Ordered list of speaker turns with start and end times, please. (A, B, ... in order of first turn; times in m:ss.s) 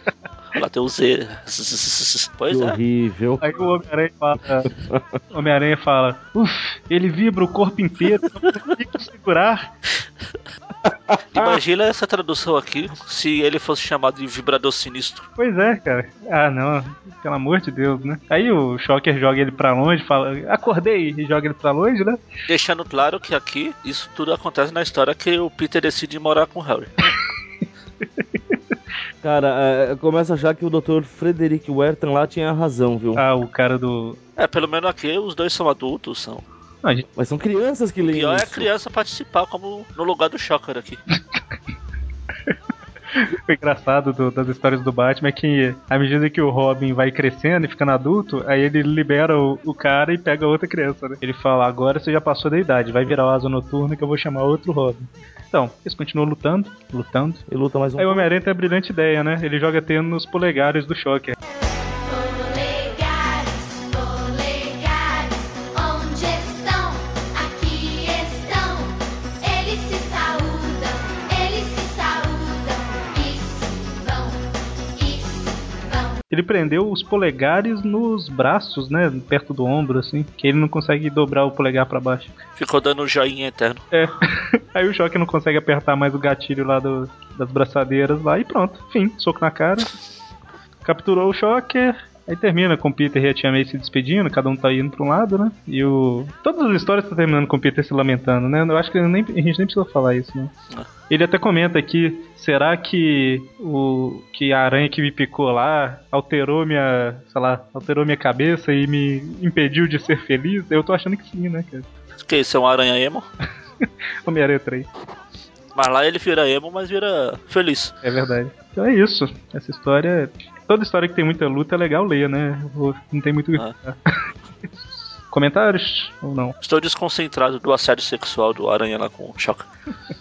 0:00.5-0:02.8 A
0:02.5-0:03.8 B
0:03.4-0:04.7 C
0:04.8-0:05.0 B
0:05.3-0:09.7 C
0:10.8-0:11.6 B
0:11.3-0:15.2 A
0:15.4-0:22.2 C
0:22.5-0:26.9 A
0:29.2-0:33.2 B
0:33.1-0:34.2 C
0:34.4-0:36.4 A
0:37.2-0:38.7 B
0:38.0-0:41.0 A
0:43.1-0:57.4 C
0:57.5-0:58.3 B
0:58.0-1:01.4 C
1:02.0-1:14.4 D
1:14.9-1:16.2 D
1:16.3-1:22.3 C
1:22.6-1:23.8 A
1:23.9-1:29.9 C
1:30.8-1:40.5 C
1:41.1-1:51.9 C
1:52.2-1:53.3 A
1:53.8-1:54.9 C
1:55.7-1:57.9 A
1:58.0-2:04.0 C
2:05.3-2:06.6 C
2:06.6-2:09.7 A